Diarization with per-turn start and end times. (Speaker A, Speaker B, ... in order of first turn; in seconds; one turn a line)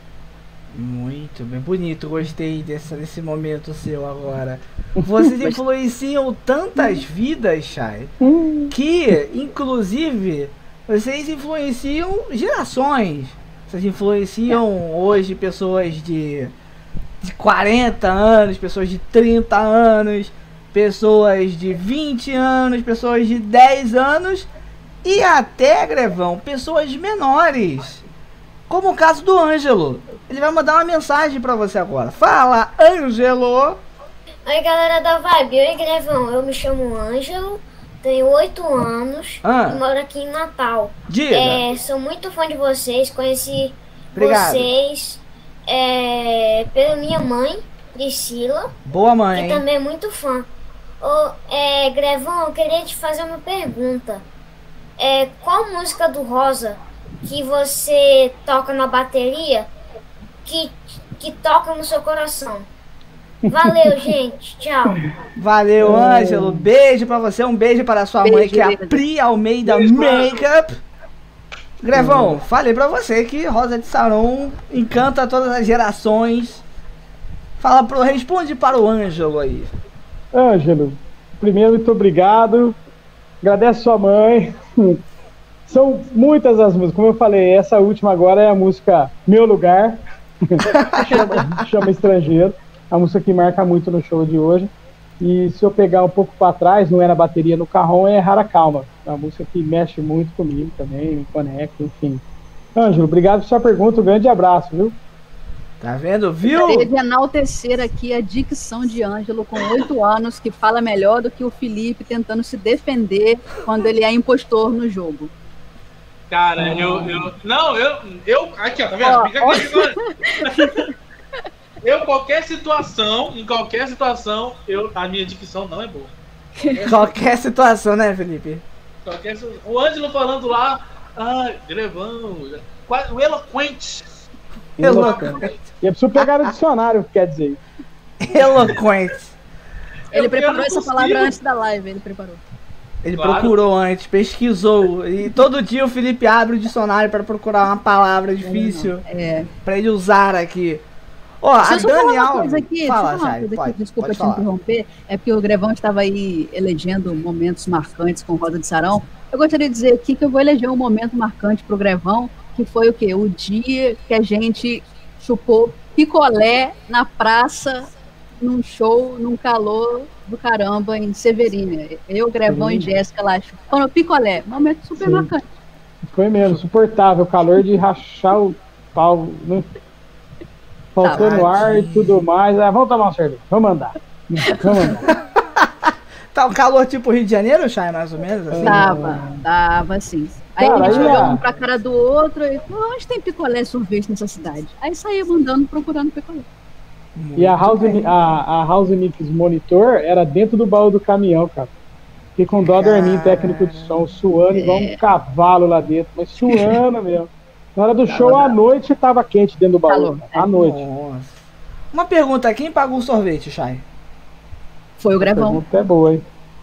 Speaker A: 0.7-8.1
Speaker B: 5.0-5.3
Speaker B: 8.2-8.7
Speaker A: 8.7-16.5
Speaker A: 17.2-24.5
Speaker A: 25.0-28.0
Speaker A: 28.7-33.8
Speaker C: 34.4-48.7
Speaker A: 39.4-39.8
Speaker A: 41.1-41.6
Speaker A: 44.1-44.7
Speaker A: 48.9-49.6
Speaker C: 49.3-50.5
Speaker C: 51.0-54.2
Speaker C: 55.0-59.7
Speaker C: 60.4-62.7
Speaker B: 63.5-63.9
Speaker C: 63.5-65.1
Speaker A: 65.3-70.8
Speaker B: 65.8-66.7
Speaker D: 68.2-69.0
Speaker E: 69.7-70.4
Speaker A: 71.8-76.6
Speaker B: 71.9-72.4
Speaker A: 77.6-79.7
Speaker B: 80.3-82.8
Speaker B: 83.4-85.0
Speaker B: 85.7-102.2
Speaker A: 90.6-91.6
Speaker B: 102.7-105.0
Speaker A: 105.8-106.9
Speaker D: 106.4-115.3
Speaker E: 116.3-120.8
Speaker B: 116.6-117.3
Speaker D: 119.0-120.9
Speaker E: 121.8-126.1
Speaker E: 126.7-127.1
Speaker A: 126.8-128.6
Speaker E: 129.0-134.2
Speaker B: 134.8-137.6
Speaker A: 134.8-135.7
Speaker A: 138.2-139.3
Speaker E: 140.1-141.3
Speaker D: 140.1-142.4
Speaker A: 143.0-149.0
Speaker E: 143.2-143.5
Speaker D: 148.4-149.5
Speaker A: 149.6-150.8
Speaker A: 151.4-154.4
Speaker D: 151.6-167.9
Speaker D: 168.4-175.4
Speaker B: 172.4-172.9
Speaker B: 175.0-175.3
Speaker B: 176.1-179.7
Speaker B: 180.9-185.0
Speaker D: 181.0-181.3
Speaker A: 181.1-182.2
Speaker D: 184.4-185.0
Speaker A: 185.1-185.7
Speaker A: 186.3-188.9
Speaker B: 188.5-189.4
Speaker D: 188.6-196.4
Speaker B: 190.6-191.4
Speaker A: 190.8-191.4
Speaker A: 197.2-198.1
Speaker B: 197.4-201.7
Speaker B: 202.3-210.8
Speaker A: 202.7-204.0
Speaker D: 204.5-205.0
Speaker D: 208.1-208.6
Speaker D: 209.9-210.5
Speaker A: 210.6-211.4
Speaker A: 211.9-213.8
Speaker D: 215.0-215.6
Speaker B: 215.2-216.2